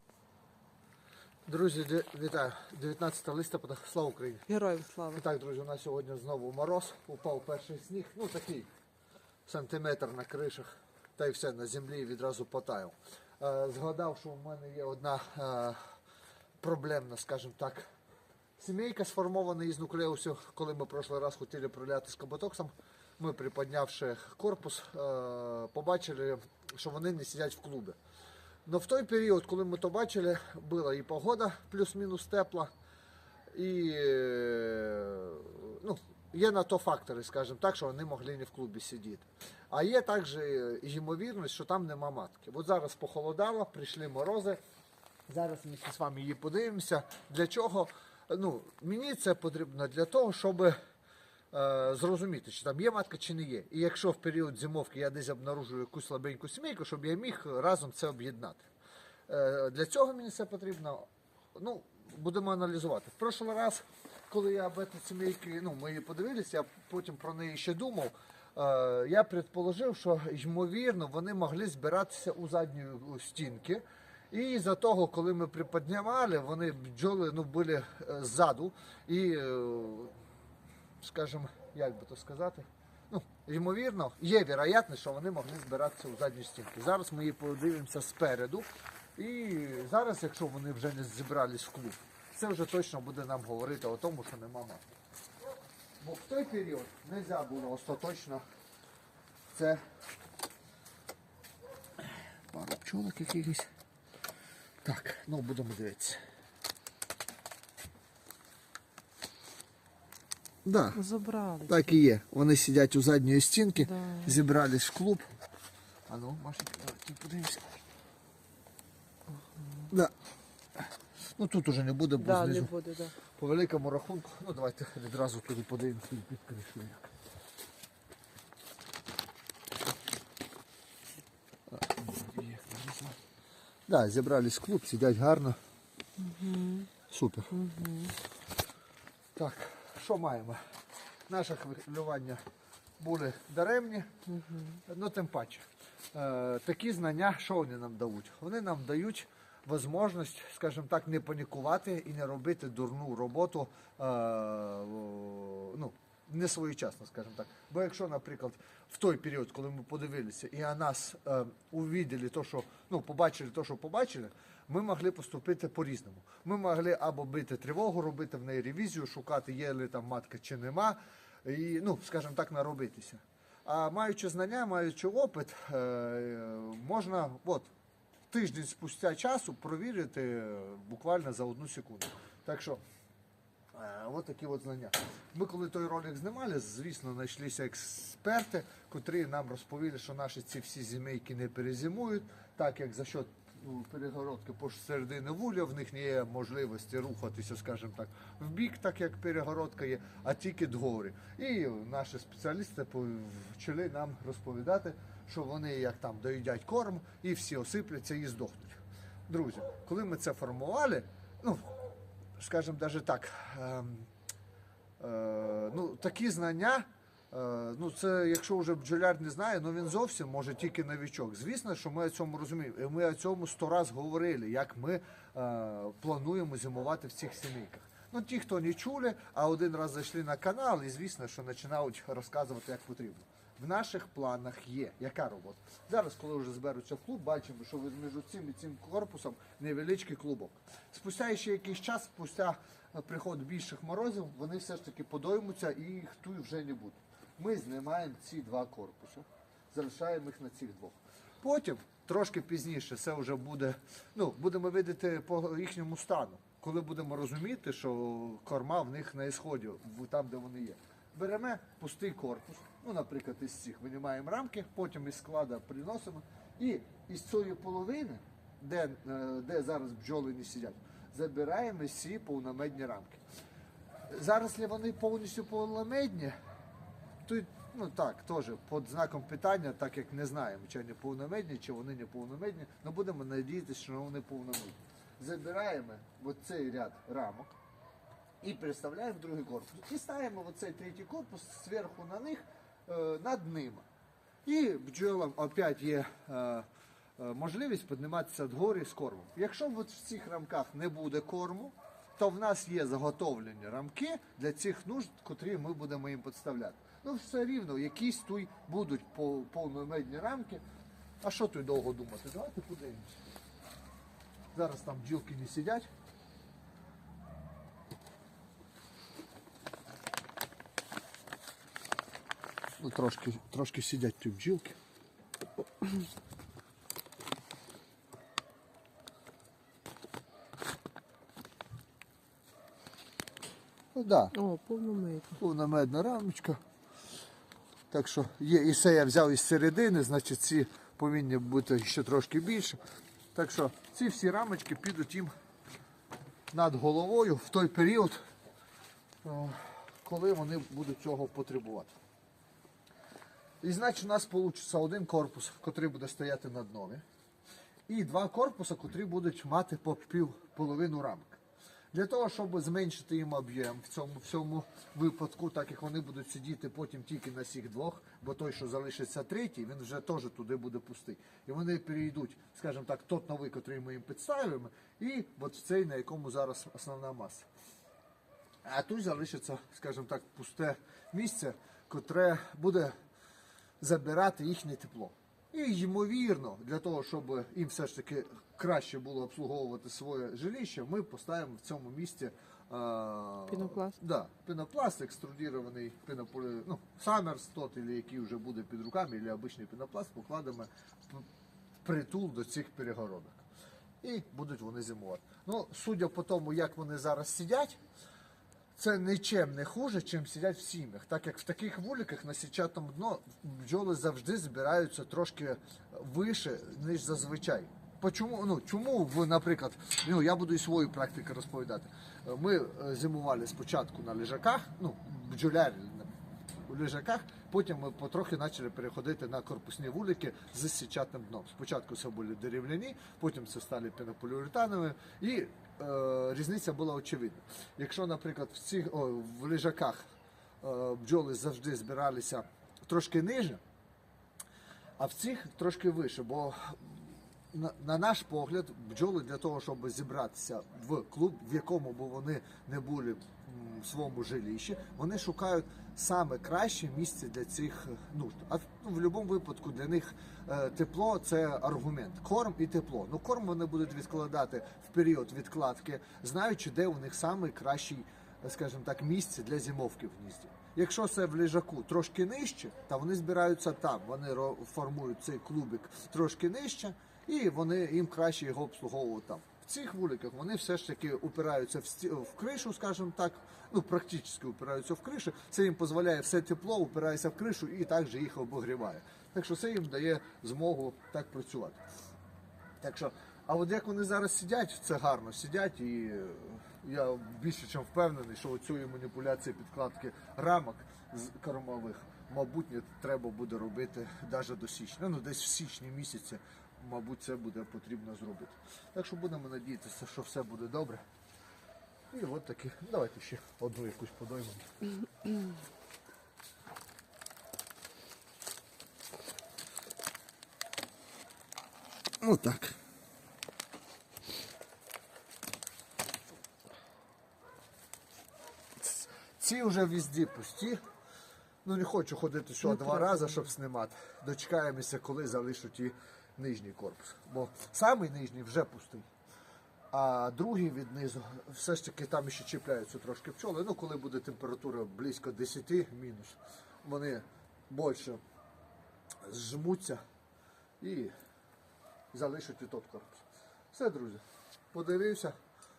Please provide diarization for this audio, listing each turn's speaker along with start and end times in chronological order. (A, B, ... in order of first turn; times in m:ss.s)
0:01.5-0:04.5 A
0:04.5-0:05.2 B
0:05.1-0:08.7 A
0:09.5-0:15.8 A
0:16.6-0:17.9 A
0:18.6-0:28.0 A
0:28.7-0:32.7 A
0:33.5-0:44.6 A
0:45.3-0:50.8 A
0:51.5-0:58.7 A
0:59.3-1:20.2 A
1:21.0-1:34.8 A
1:36.0-1:38.4 A
1:39.5-1:39.8 A
1:42.5-1:43.7 A
1:44.8-1:46.2 A
1:50.6-1:51.0 A
1:50.9-1:51.9 B
1:51.7-1:55.3 A
1:53.8-1:54.3 B
1:56.1-1:57.8 A
1:59.9-2:00.1 A
2:01.4-2:02.7 A
2:02.2-2:03.1 B
2:03.3-2:07.1 A
2:11.7-2:13.2 A
2:13.9-2:15.6 A
2:16.2-2:16.9 B
2:17.1-2:17.5 A
2:17.5-2:18.2 B
2:19.4-2:20.6 A
2:21.3-2:22.4 A
2:23.0-2:24.1 A
2:24.3-2:24.8 B
2:24.8-2:57.7 A
2:58.3-3:02.8 A
3:03.7-3:31.8 A
3:32.4-3:34.1 A
3:35.0-4:33.2 A
4:34.1-4:36.4 A
4:37.2-4:47.5 A
4:48.4-4:53.8 A
4:54.4-4:56.7 A
4:57.2-5:10.6 A
5:11.2-5:13.2 A
5:14.5-5:15.9 A
5:22.8-5:24.8 A
5:33.9-5:34.4 A
5:34.3-5:35.4 B
5:35.4-5:36.6 A
5:37.9-5:42.8 A
5:43.3-5:45.3 A
5:46.5-5:48.2 A
5:49.2-5:51.9 A
5:53.6-5:57.0 A
5:57.9-6:01.4 A
6:01.9-6:17.5 A
6:18.6-6:22.9 A
6:23.8-6:41.3 A
6:33.5-6:34.0 B
6:41.8-6:43.4 A
6:44.0-6:47.8 A
6:48.8-7:20.1 A
7:20.6-7:23.6 A
7:25.0-8:11.8 A
8:12.8-8:31.0 A
8:32.1-8:34.7 A
8:42.2-8:42.8 A
8:48.8-8:50.8 A
8:51.6-8:59.1 A
8:52.6-8:53.4 B
8:59.9-9:08.2 A
9:09.2-9:10.0 A
9:10.8-9:11.1 A
9:12.1-9:15.4 A